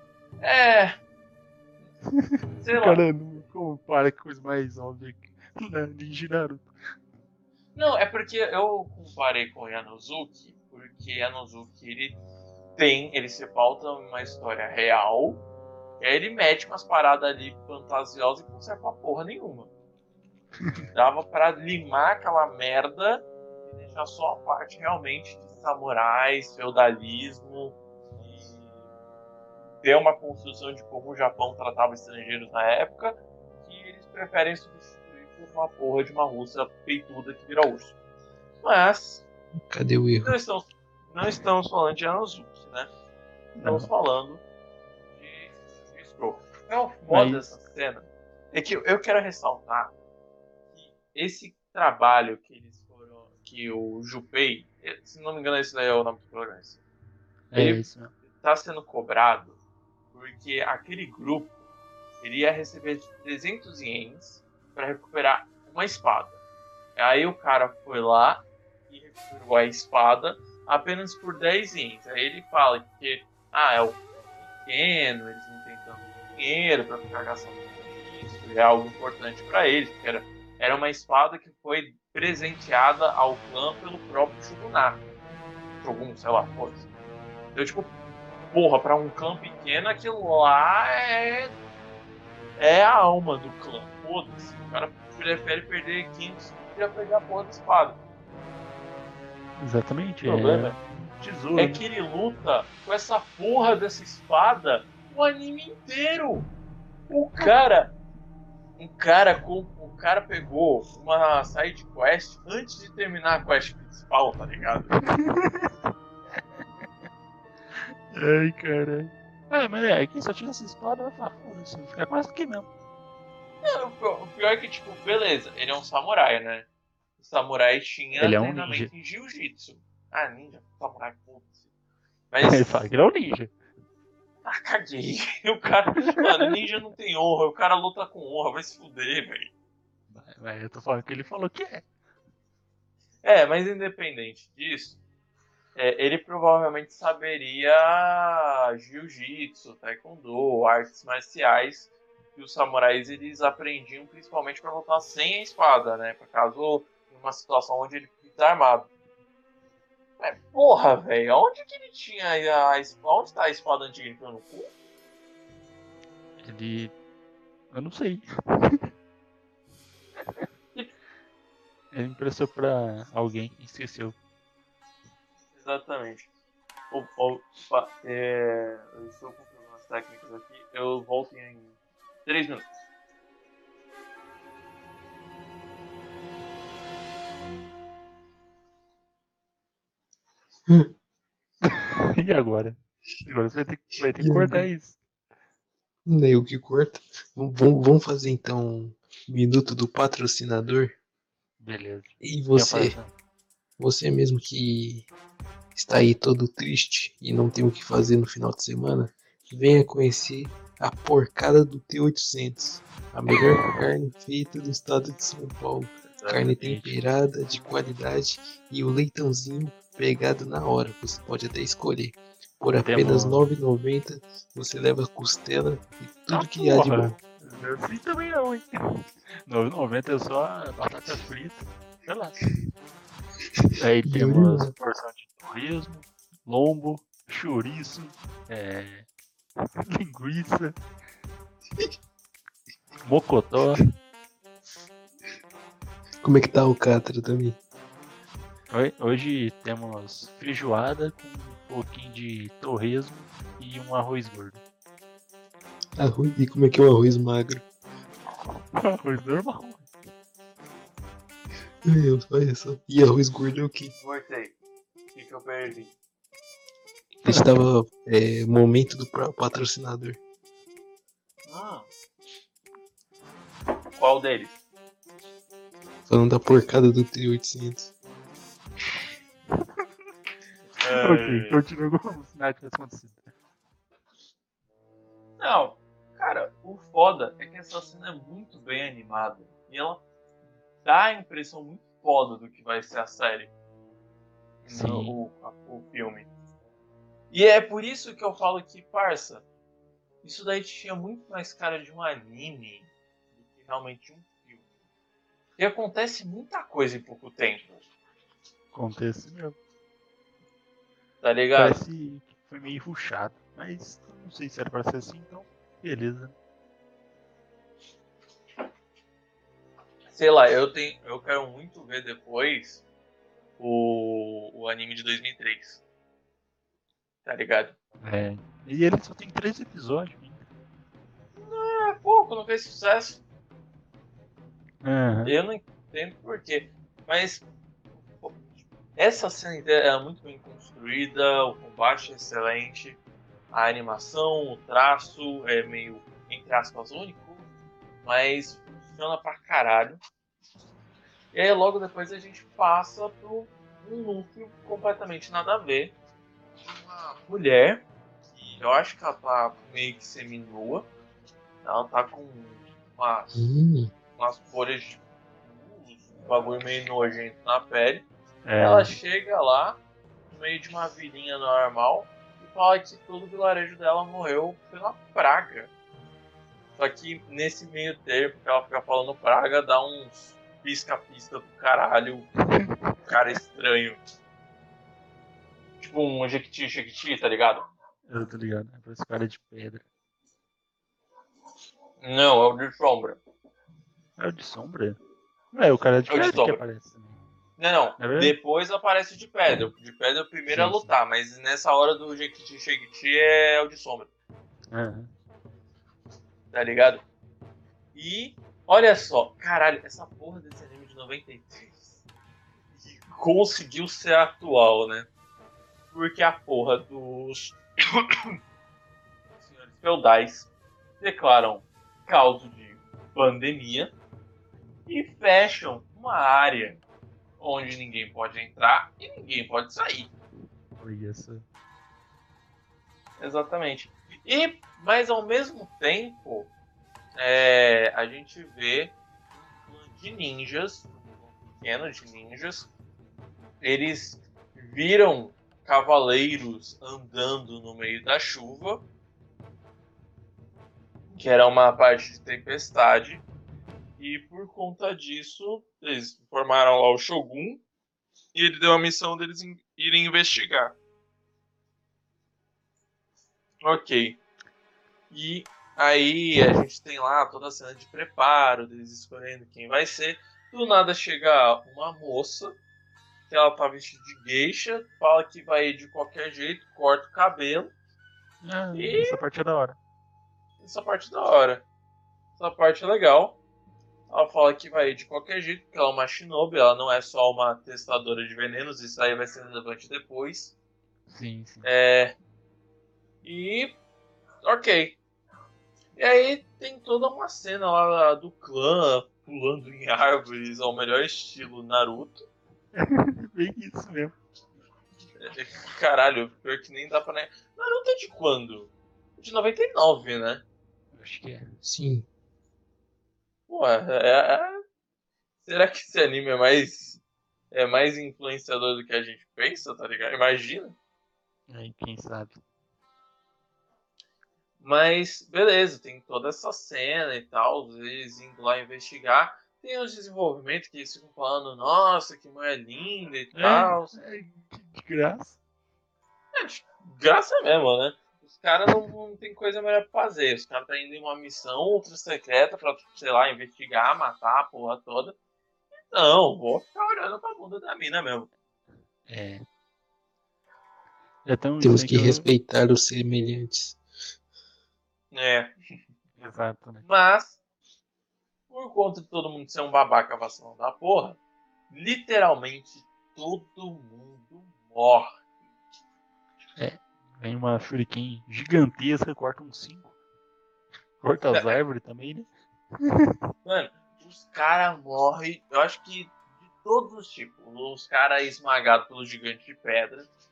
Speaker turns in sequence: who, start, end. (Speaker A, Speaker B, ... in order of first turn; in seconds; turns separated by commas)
Speaker A: 0.4-1.0, Speaker B: 2.1-6.7, Speaker A: 2.6-3.1, Speaker A: 7.8-12.2, Speaker A: 12.8-15.4, Speaker A: 16.0-19.7, Speaker A: 20.9-28.7, Speaker A: 29.8-37.9, Speaker A: 38.6-39.2, Speaker C: 39.7-40.3, Speaker A: 40.2-42.9, Speaker B: 43.5-43.9, Speaker A: 43.6-44.4, Speaker A: 45.1-49.9, Speaker B: 47.1-47.5, Speaker A: 50.8-56.8, Speaker B: 57.5-58.1, Speaker A: 57.5-59.6, Speaker A: 60.1-61.6, Speaker A: 62.2-66.4, Speaker A: 67.0-74.0, Speaker A: 74.6-85.0, Speaker A: 85.8-86.8, Speaker A: 87.5-87.9, Speaker A: 88.5-91.5, Speaker A: 92.6-98.0, Speaker B: 99.6-101.8, Speaker A: 100.3-100.8, Speaker A: 101.6-106.5, Speaker A: 107.1-108.0, Speaker A: 108.8-114.9, Speaker B: 115.0-115.7, Speaker B: 117.8-122.7, Speaker A: 123.6-126.7, Speaker A: 127.2-131.5, Speaker B: 128.2-128.9, Speaker A: 132.3-132.8, Speaker B: 132.4-133.5, Speaker A: 134.4-139.5, Speaker B: 140.1-141.8, Speaker A: 143.2-145.0, Speaker A: 145.8-158.9, Speaker A: 160.2-164.7, Speaker B: 166.4-166.9, Speaker B: 167.7-168.9, Speaker B: 171.9-174.2, Speaker A: 175.5-176.3, Speaker A: 176.9-181.8, Speaker A: 182.3-182.7, Speaker B: 191.6-195.0, Speaker C: 194.2-194.7, Speaker C: 196.1-200.9, Speaker B: 201.6-203.1, Speaker C: 202.2-202.9, Speaker C: 203.8-205.1, Speaker C: 205.7-227.2, Speaker A: 216.1-216.9, Speaker B: 222.8-223.5, Speaker B: 226.3-232.6, Speaker C: 233.6-234.7, Speaker B: 233.8-239.1, Speaker B: 239.9-240.8, Speaker B: 243.0-243.9, Speaker C: 246.2-247.6, Speaker B: 248.7-254.6, Speaker C: 256.0-257.6, Speaker B: 258.8-259.9, Speaker C: 261.9-263.9, Speaker A: 264.0-264.6, Speaker A: 265.1-265.9, Speaker B: 267.2-267.5, Speaker C: 267.2-270.2, Speaker A: 271.5-271.9, Speaker A: 273.9-274.6, Speaker C: 276.1-277.9, Speaker A: 280.8-281.6, Speaker B: 280.8-283.3, Speaker A: 285.4-290.0, Speaker A: 290.8-293.5, Speaker A: 294.6-296.3, Speaker B: 294.7-295.2, Speaker A: 297.3-299.4, Speaker A: 300.2-304.6, Speaker A: 305.6-307.8, Speaker B: 308.7-309.6, Speaker A: 311.2-311.8, Speaker B: 311.6-316.4, Speaker A: 320.1-322.8, Speaker A: 323.6-325.8, Speaker A: 327.2-327.8, Speaker B: 328.0-330.4, Speaker A: 331.4-333.2, Speaker B: 334.8-335.4, Speaker A: 335.2-337.4, Speaker A: 338.0-338.4, Speaker A: 338.9-343.0, Speaker A: 343.5-347.5, Speaker A: 348.0-350.0, Speaker A: 351.3-355.9, Speaker A: 356.6-360.9, Speaker A: 361.6-363.3, Speaker C: 363.3-363.9, Speaker A: 364.2-368.1, Speaker B: 368.4-368.9, Speaker A: 368.6-375.7, Speaker A: 376.8-382.3, Speaker B: 382.6-382.9, Speaker A: 383.0-384.0, Speaker A: 385.8-387.6, Speaker B: 388.1-389.9, Speaker A: 392.0-393.2, Speaker B: 394.2-395.0, Speaker B: 395.5-397.2, Speaker A: 396.1-396.6, Speaker A: 397.6-404.1, Speaker B: 398.0-398.4, Speaker B: 400.5-400.9, Speaker B: 404.7-405.1, Speaker A: 406.5-407.0, Speaker A: 407.9-412.0, Speaker A: 412.8-415.1, Speaker A: 415.9-418.4, Speaker A: 419.4-420.5, Speaker A: 421.0-423.9, Speaker A: 424.9-426.8, Speaker A: 427.4-430.1, Speaker B: 430.8-431.4, Speaker A: 433.2-436.5, Speaker A: 437.2-439.0, Speaker A: 439.6-442.7, Speaker A: 443.6-448.8, Speaker A: 451.1-453.2, Speaker A: 454.0-457.6, Speaker A: 458.3-460.8, Speaker A: 463.6-464.2, Speaker A: 465.1-472.6, Speaker A: 473.3-477.7, Speaker B: 478.4-479.8, Speaker A: 478.7-479.2, Speaker A: 480.6-481.6, Speaker A: 482.4-483.4, Speaker A: 484.1-490.6, Speaker B: 491.1-491.7, Speaker A: 491.6-492.1, Speaker A: 493.2-493.8, Speaker A: 494.4-495.0, Speaker A: 496.0-502.2, Speaker B: 502.8-504.2, Speaker A: 505.2-510.4, Speaker B: 510.9-511.5, Speaker C: 511.6-512.1, Speaker A: 513.5-514.6, Speaker A: 515.4-520.8, Speaker B: 521.5-522.4, Speaker A: 524.6-534.0, Speaker B: 533.4-535.4, Speaker A: 536.4-545.1, Speaker A: 545.8-548.3, Speaker B: 549.1-549.5, Speaker B: 551.3-552.2, Speaker C: 551.6-553.8, Speaker A: 555.1-555.5, Speaker B: 556.2-556.9, Speaker A: 556.8-557.4, Speaker A: 558.5-561.2, Speaker A: 561.7-565.1, Speaker B: 566.6-569.9, Speaker B: 571.0-572.3, Speaker A: 571.3-571.6, Speaker B: 572.8-573.2, Speaker A: 573.5-580.1